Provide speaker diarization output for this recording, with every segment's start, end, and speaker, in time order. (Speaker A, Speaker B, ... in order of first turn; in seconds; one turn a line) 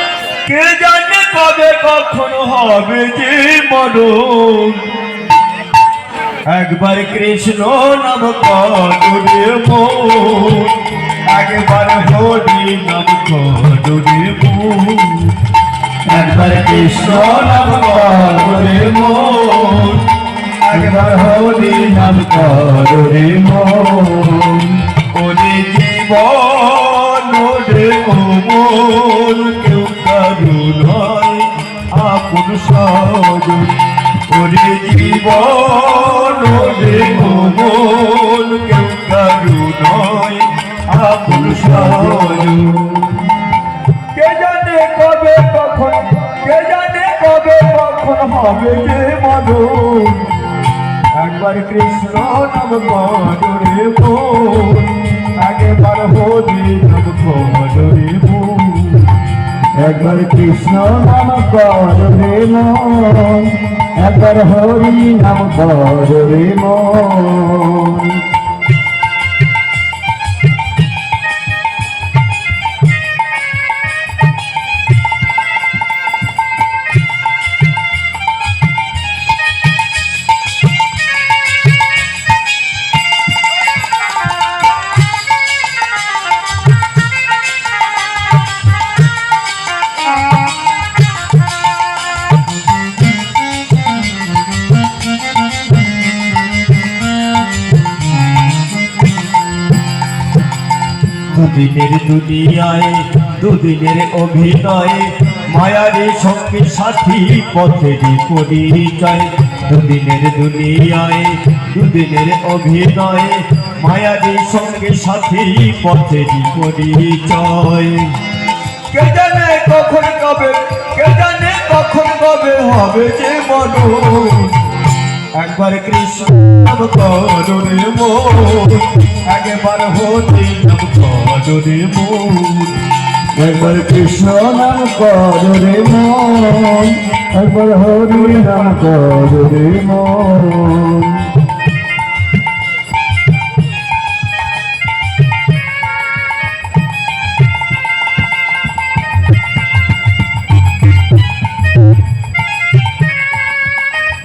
Speaker A: 0.4-4.9
Speaker A: 6.5-15.4
Speaker B: 16.1-19.3
Speaker A: 16.1-20.1
Speaker A: 20.6-22.8
Speaker B: 20.7-24.8
Speaker A: 25.1-43.1
Speaker A: 44.1-50.3
Speaker A: 51.1-59.1
Speaker B: 59.8-68.3
Speaker A: 101.3-118.2
Speaker A: 118.9-124.6
Speaker A: 125.3-132.8
Speaker B: 133.3-141.3
Speaker A: 138.1-138.9